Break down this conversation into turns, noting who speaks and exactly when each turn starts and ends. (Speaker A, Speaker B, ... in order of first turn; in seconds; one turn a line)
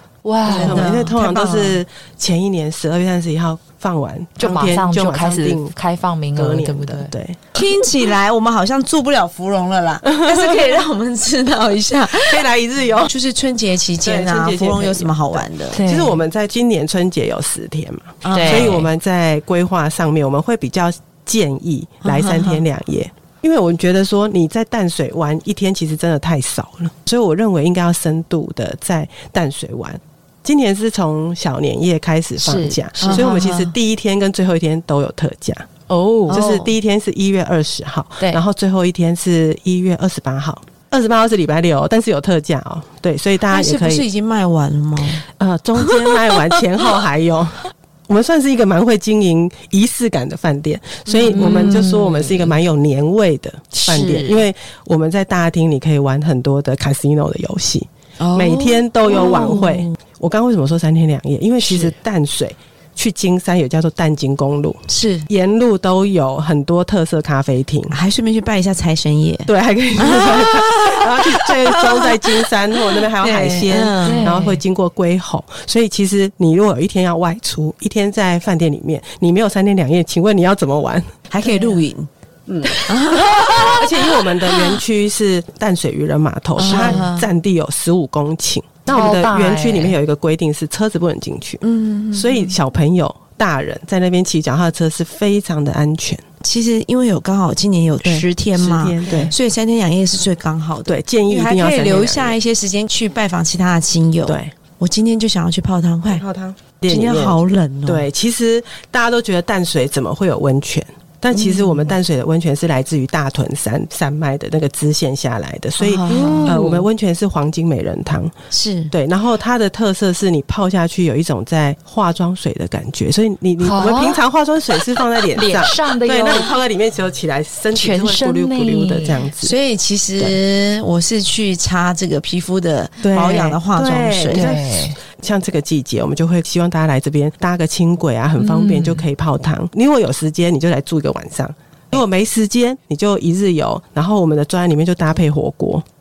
Speaker A: 0.2-1.0
Speaker B: 0.4-1.8
Speaker C: 0.5-5.7
Speaker A: 4.4-7.1
Speaker C: 6.3-7.4
Speaker B: 7.5-12.4
Speaker C: 10.0-10.8
Speaker C: 12.2-13.1
Speaker B: 13.1-15.8
Speaker C: 14.0-35.7
Speaker A: 15.7-16.2
Speaker B: 18.2-18.8
Speaker A: 18.3-18.9
Speaker B: 22.0-22.6
Speaker A: 32.4-33.7
Speaker B: 33.0-33.5
Speaker A: 35.9-36.7
Speaker B: 36.3-36.6
Speaker C: 36.3-44.0
Speaker B: 43.5-45.2
Speaker C: 45.2-67.9
Speaker B: 46.1-46.4
Speaker B: 51.1-51.8
Speaker A: 51.2-52.6
Speaker B: 53.8-54.4
Speaker B: 58.2-60.0
Speaker A: 59.2-59.6
Speaker B: 64.9-65.3
Speaker B: 67.9-74.3
Speaker C: 69.5-81.2
Speaker A: 74.0-74.6
Speaker B: 81.3-82.1
Speaker C: 82.5-91.6
Speaker A: 82.6-83.8
Speaker B: 82.8-83.7
Speaker B: 86.6-87.3
Speaker A: 86.6-87.0
Speaker A: 88.9-90.0
Speaker B: 91.6-92.5
Speaker C: 92.1-96.2
Speaker B: 96.4-106.2
Speaker C: 98.0-99.3
Speaker A: 99.0-99.3
Speaker C: 100.8-102.4
Speaker C: 104.2-104.5
Speaker C: 106.1-118.3
Speaker B: 106.9-108.0
Speaker B: 111.3-112.0
Speaker B: 115.8-116.6
Speaker A: 116.1-116.8
Speaker B: 118.5-118.9
Speaker C: 118.9-129.5
Speaker A: 123.6-124.2
Speaker A: 125.3-126.5
Speaker A: 127.7-129.2
Speaker B: 129.4-134.5
Speaker C: 133.0-145.8
Speaker A: 134.3-135.0
Speaker A: 138.4-139.0